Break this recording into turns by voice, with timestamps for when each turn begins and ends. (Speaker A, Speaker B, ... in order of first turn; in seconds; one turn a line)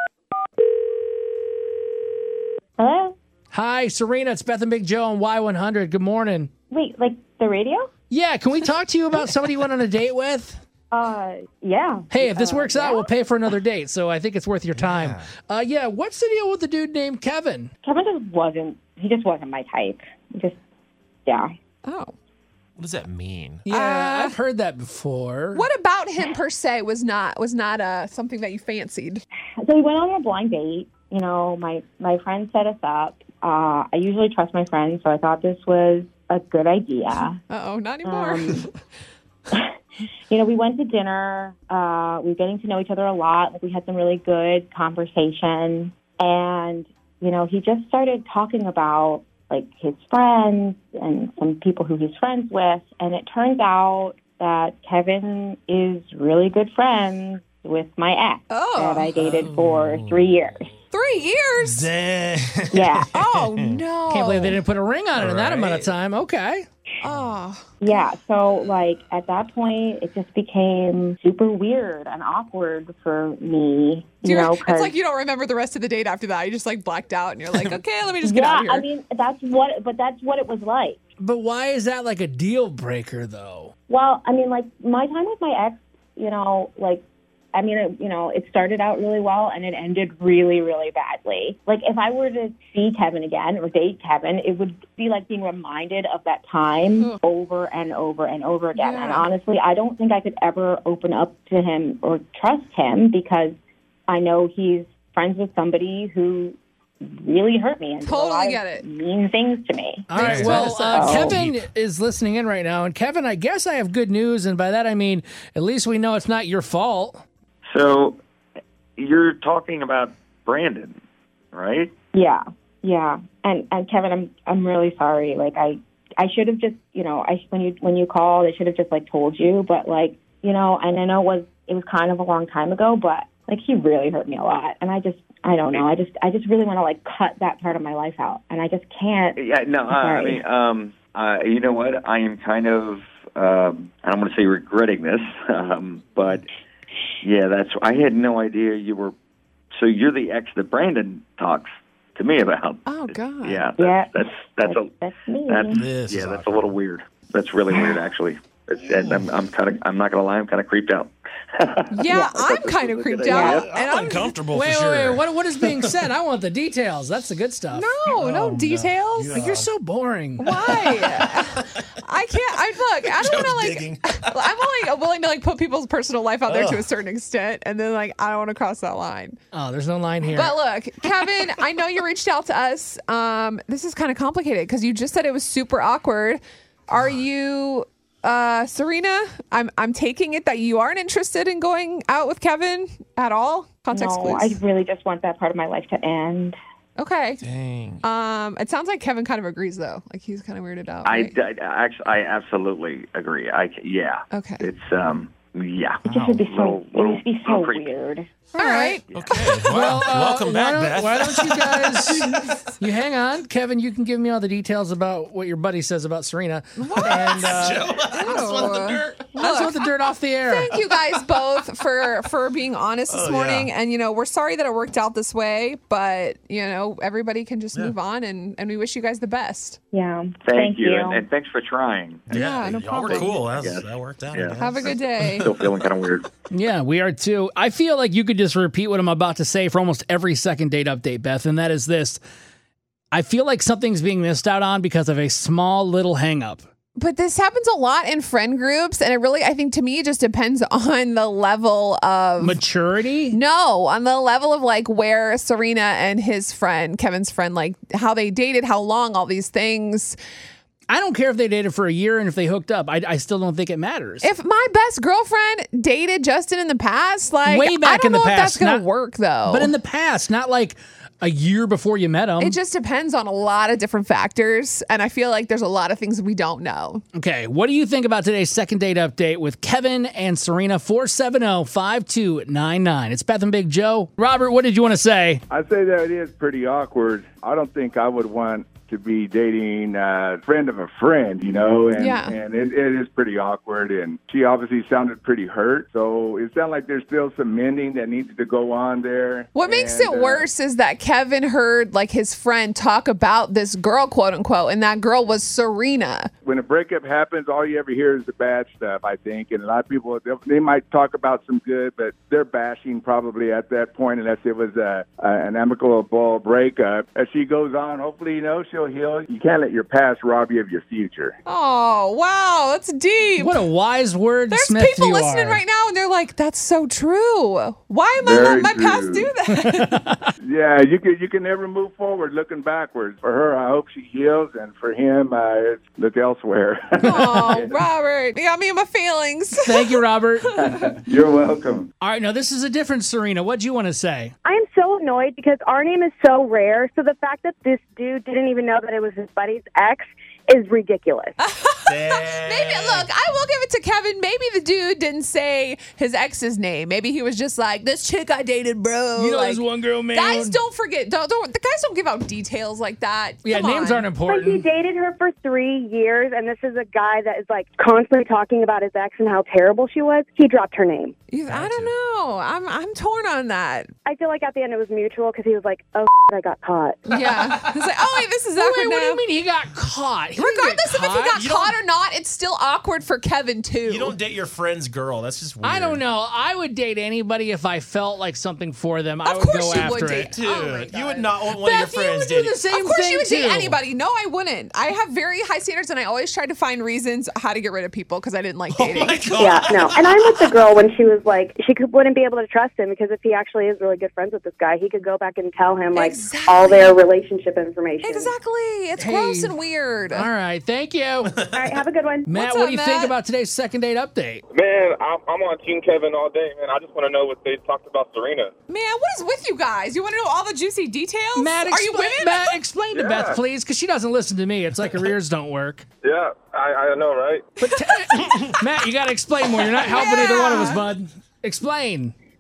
Speaker A: 2.8-3.1
Speaker B: 3.5-6.5
Speaker A: 6.7-7.9
Speaker B: 8.1-10.6
Speaker A: 10.9-13.1
Speaker B: 12.1-17.7
Speaker C: 14.7-15.3
Speaker A: 17.8-20.6
Speaker D: 21.8-22.1
Speaker C: 22.8-23.6
Speaker B: 23.6-25.6
Speaker D: 23.7-24.4
Speaker D: 25.5-29.2
Speaker A: 29.6-37.4
Speaker D: 37.5-38.7
Speaker A: 38.0-38.7
Speaker A: 40.3-60.7
Speaker D: 58.5-59.1
Speaker C: 59.1-60.5
Speaker D: 60.9-61.9
Speaker C: 61.6-63.8
Speaker A: 62.7-63.1
Speaker D: 63.1-64.6
Speaker B: 64.1-66.7
Speaker C: 65.2-65.9
Speaker D: 67.0-68.0
Speaker A: 67.8-74.9
Speaker D: 74.2-78.8
Speaker A: 78.2-81.0
Speaker B: 81.2-83.7
Speaker A: 83.9-87.0
Speaker A: 87.5-103.6
Speaker D: 98.8-99.3
Speaker A: 104.1-111.4
Speaker D: 108.0-108.8
Speaker B: 110.1-117.2
Speaker C: 110.1-111.6
Speaker E: 117.6-118.2
Speaker E: 119.0-121.0
Speaker E: 121.5-121.9
Speaker A: 122.1-140.4
Speaker E: 139.4-146.4
Speaker E: 147.2-149.1
Speaker E: 149.7-154.9
Speaker D: 152.8-153.6
Speaker A: 153.8-155.8
Speaker E: 155.5-163.8
Speaker C: 155.8-156.8
Speaker A: 157.7-158.0
Speaker C: 158.8-159.4
Speaker D: 161.9-164.3
Speaker C: 163.2-166.1
Speaker A: 163.3-163.6
Speaker B: 164.5-167.9
Speaker D: 167.7-169.4
Speaker C: 168.1-169.7
Speaker B: 169.2-170.5
Speaker D: 170.4-179.4
Speaker C: 170.8-171.6
Speaker C: 173.0-174.7
Speaker C: 176.4-176.9
Speaker B: 179.5-180.6
Speaker D: 180.2-194.6
Speaker A: 193.9-196.6
Speaker D: 197.0-197.4
Speaker C: 197.4-198.0
Speaker D: 198.0-201.3
Speaker E: 201.0-207.9
Speaker D: 204.3-204.7
Speaker C: 206.0-206.4
Speaker A: 206.0-208.3
Speaker B: 208.5-209.0
Speaker D: 208.5-209.0
Speaker C: 209.1-212.6
Speaker B: 209.6-217.9
Speaker D: 216.8-217.3
Speaker C: 217.1-219.5
Speaker D: 218.1-219.8
Speaker B: 219.3-220.7
Speaker D: 220.5-229.8
Speaker C: 223.1-223.7
Speaker A: 229.9-231.2
Speaker E: 230.4-232.2
Speaker C: 232.3-235.3
Speaker D: 232.3-233.3
Speaker E: 232.9-236.2
Speaker D: 234.6-235.5
Speaker B: 236.5-242.2
Speaker B: 243.1-246.6
Speaker D: 247.0-252.6
Speaker B: 252.4-253.4
Speaker D: 253.3-260.2
Speaker B: 260.9-264.3
Speaker D: 264.2-269.7
Speaker B: 267.4-268.9
Speaker B: 269.4-272.6
Speaker D: 272.4-277.0
Speaker B: 277.1-285.4
Speaker F: 285.5-300.5
Speaker D: 292.0-292.4
Speaker D: 299.5-306.3
Speaker F: 306.4-321.3
Speaker D: 321.4-323.6
Speaker B: 323.4-325.6
Speaker D: 324.5-330.0
Speaker F: 328.2-329.3
Speaker B: 329.7-330.2
Speaker F: 330.4-337.7
Speaker D: 337.0-340.0
Speaker B: 339.6-340.6
Speaker F: 340.6-341.9
Speaker B: 342.0-344.3
Speaker G: 344.4-351.4
Speaker D: 351.4-359.6
Speaker C: 351.9-353.1
Speaker B: 359.1-360.6
Speaker D: 360.1-364.1
Speaker B: 363.4-364.6
Speaker G: 364.2-371.1
Speaker D: 371.3-373.9
Speaker C: 371.5-371.9
Speaker G: 374.1-377.1
Speaker D: 377.1-379.2
Speaker B: 378.6-381.4
Speaker D: 380.4-384.2
Speaker C: 381.4-381.8
Speaker C: 383.8-386.0
Speaker B: 385.6-391.2
Speaker D: 389.2-390.9
Speaker C: 390.2-392.6
Speaker D: 391.6-399.3
Speaker B: 391.8-393.8
Speaker C: 398.7-400.6
Speaker G: 399.4-408.3
Speaker D: 405.9-407.0
Speaker D: 408.0-410.3
Speaker B: 409.0-409.6
Speaker B: 410.1-411.3
Speaker G: 411.5-412.3
Speaker B: 412.2-414.4
Speaker D: 412.3-413.1
Speaker H: 414.5-418.5
Speaker D: 418.7-422.5
Speaker B: 421.4-425.9
Speaker H: 422.9-423.4
Speaker H: 426.0-427.5
Speaker B: 427.6-432.1
Speaker D: 427.7-428.4
Speaker D: 429.8-430.8